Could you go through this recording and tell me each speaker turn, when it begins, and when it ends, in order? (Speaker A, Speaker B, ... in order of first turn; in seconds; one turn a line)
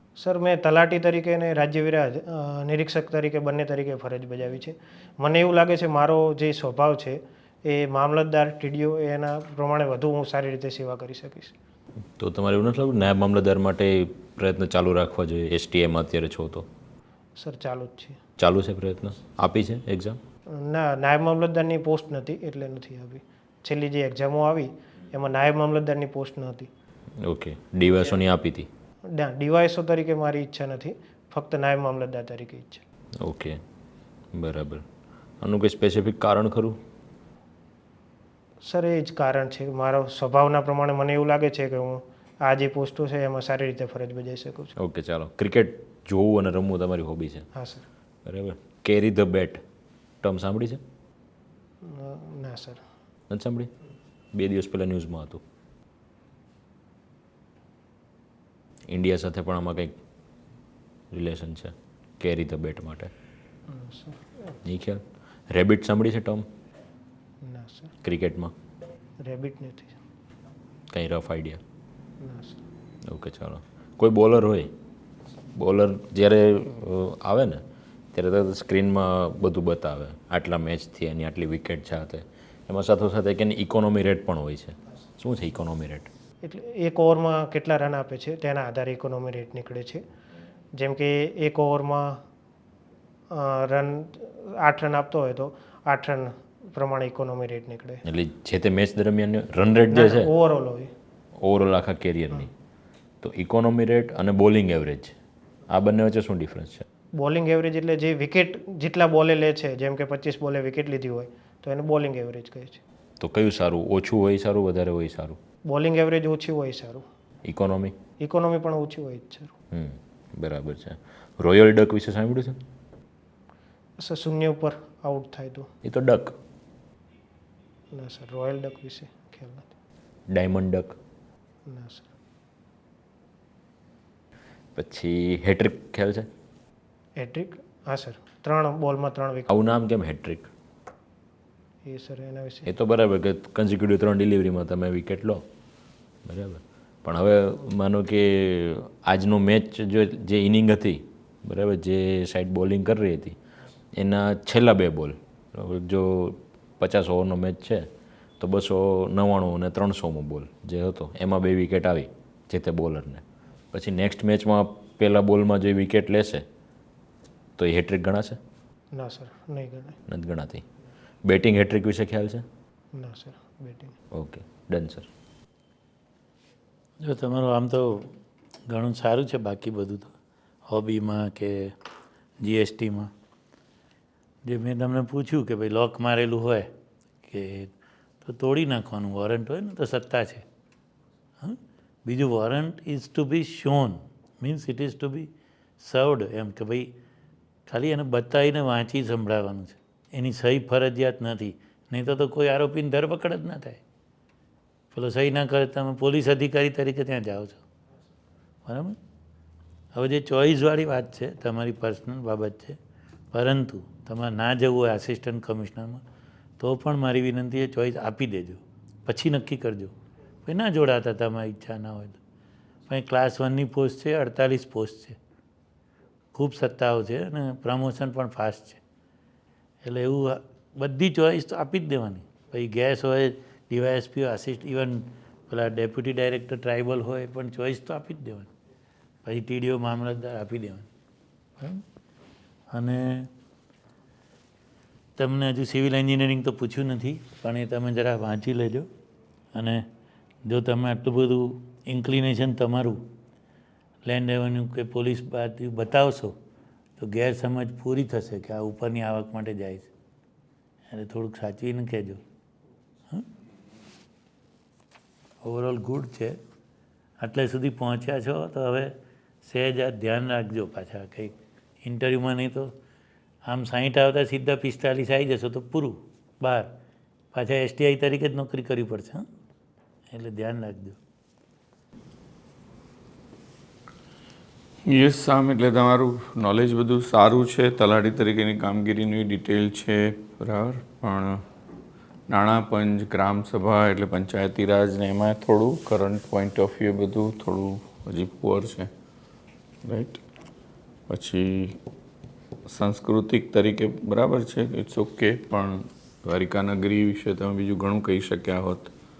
Speaker A: 0.2-11.5
Speaker B: 12.2-16.7
Speaker A: 17.4-18.2
Speaker B: 18.4-20.2
Speaker A: 20.5-26.7
Speaker B: 27.2-28.7
Speaker A: 29.1-32.8
Speaker B: 33.2-33.6
Speaker B: 34.3-34.8
Speaker B: 35.4-36.8
Speaker A: 38.6-44.7
Speaker B: 44.8-47.5
Speaker A: 47.5-47.8
Speaker B: 48.2-49.6
Speaker B: 50.2-50.8
Speaker A: 51.8-52.8
Speaker B: 53.3-53.7
Speaker B: 54.3-55.4
Speaker B: 58.9-60.0
Speaker B: 61.1-63.1
Speaker A: 63.7-64.6
Speaker B: 64.6-66.5
Speaker A: 67.4-67.9
Speaker B: 68.0-68.5
Speaker A: 69.2-70.0
Speaker B: 70.9-71.6
Speaker A: 72.2-72.6
Speaker B: 73.1-74.7
Speaker B: 75.5-86.1
Speaker A: 86.4-90.0
Speaker A: 90.7-92.2
Speaker A: 93.3-98.0
Speaker B: 98.0-100.3
Speaker A: 99.9-100.9
Speaker B: 101.4-102.5
Speaker B: 103.2-105.1
Speaker B: 105.7-106.8
Speaker A: 107.1-112.8
Speaker B: 113.2-115.4
Speaker A: 115.7-117.0
Speaker B: 117.4-118.0
Speaker A: 118.2-119.5
Speaker B: 119.7-122.6
Speaker A: 124.0-125.7
Speaker B: 125.8-126.3
Speaker A: 127.9-129.7
Speaker B: 130.3-131.0
Speaker A: 131.7-132.1
Speaker B: 134.7-136.3
Speaker A: 137.2-139.5
Speaker B: 139.5-140.5
Speaker A: 141.8-142.7
Speaker B: 142.7-145.4
Speaker B: 146.2-153.4
Speaker B: 153.9-166.4
Speaker B: 167.6-168.4
Speaker A: 168.9-170.0
Speaker B: 170.1-170.6
Speaker B: 171.2-172.4
Speaker A: 172.9-173.9
Speaker B: 174.1-175.1
Speaker C: 177.0-178.2
Speaker C: 178.7-180.1
Speaker C: 180.7-181.8
Speaker C: 182.4-183.1
Speaker C: 184.4-186.7
Speaker C: 187.2-190.4
Speaker C: 191.4-196.9
Speaker C: 197.7-203.8
Speaker C: 204.9-207.6
Speaker C: 208.7-209.0
Speaker C: 209.9-212.8
Speaker C: 213.3-216.0
Speaker C: 216.6-219.9
Speaker C: 220.4-222.2
Speaker C: 222.9-225.2
Speaker C: 226.3-228.8
Speaker C: 229.8-238.5
Speaker C: 239.2-240.9
Speaker C: 241.6-241.8
Speaker C: 242.7-243.3
Speaker C: 245.2-248.9
Speaker C: 249.5-249.9
Speaker C: 250.4-253.1
Speaker C: 254.0-256.4
Speaker C: 257.0-259.9
Speaker C: 260.9-262.2
Speaker C: 265.4-266.4
Speaker C: 267.2-272.7
Speaker C: 273.4-276.8
Speaker C: 277.3-279.2
Speaker C: 280.1-281.0
Speaker D: 284.9-291.4
Speaker D: 292.3-298.9
Speaker D: 299.8-300.2
Speaker D: 301.1-301.8
Speaker D: 302.7-308.9